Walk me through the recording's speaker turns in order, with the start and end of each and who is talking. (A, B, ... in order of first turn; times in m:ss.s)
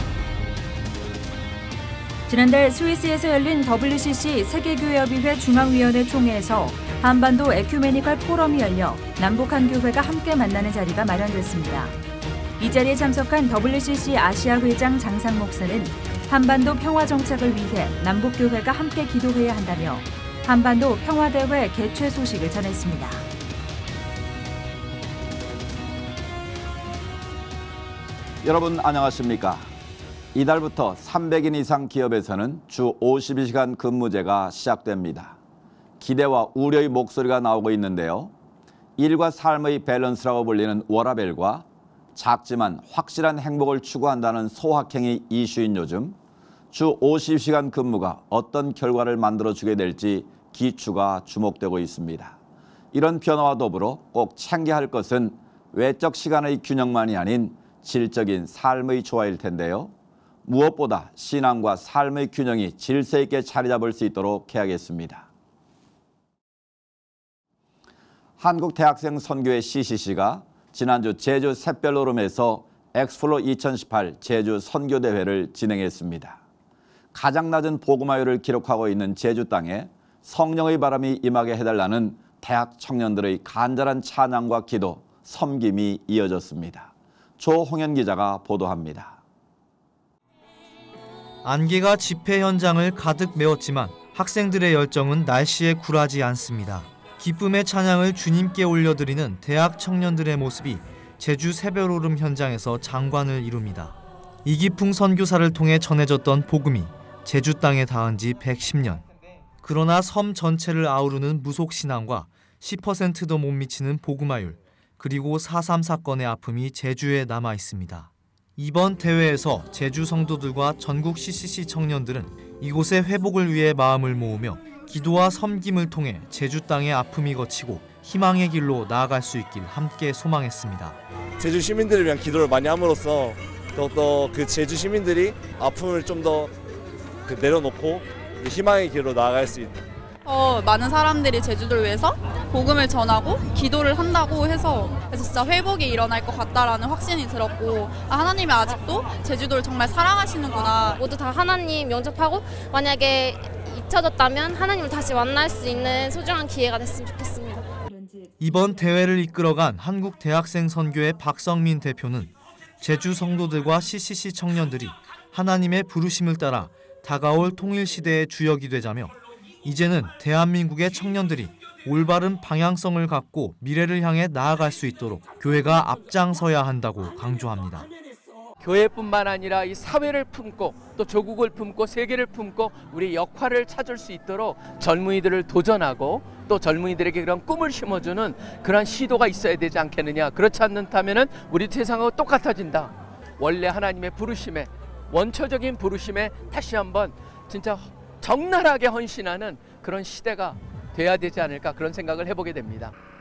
0:02.3-0:12.0 A
0:12.6-0:23.3 A
0:28.4-0:29.7 B
0:30.3-0:35.4 B
0:36.0-0:38.3 B
0:39.0-0:46.2 B
0:46.7-0:52.4 B
0:52.9-0:59.9 B
1:00.4-1:05.3 B
1:08.4-1:16.4 B
1:17.1-1:29.2 B
1:31.4-1:49.0 C
1:49.6-2:11.0 C
2:11.4-2:16.5 D
2:17.3-2:19.8 D
2:20.2-2:31.0 E
2:31.0-2:37.7 F
2:38.4-2:57.9 C
2:58.6-3:23.0 G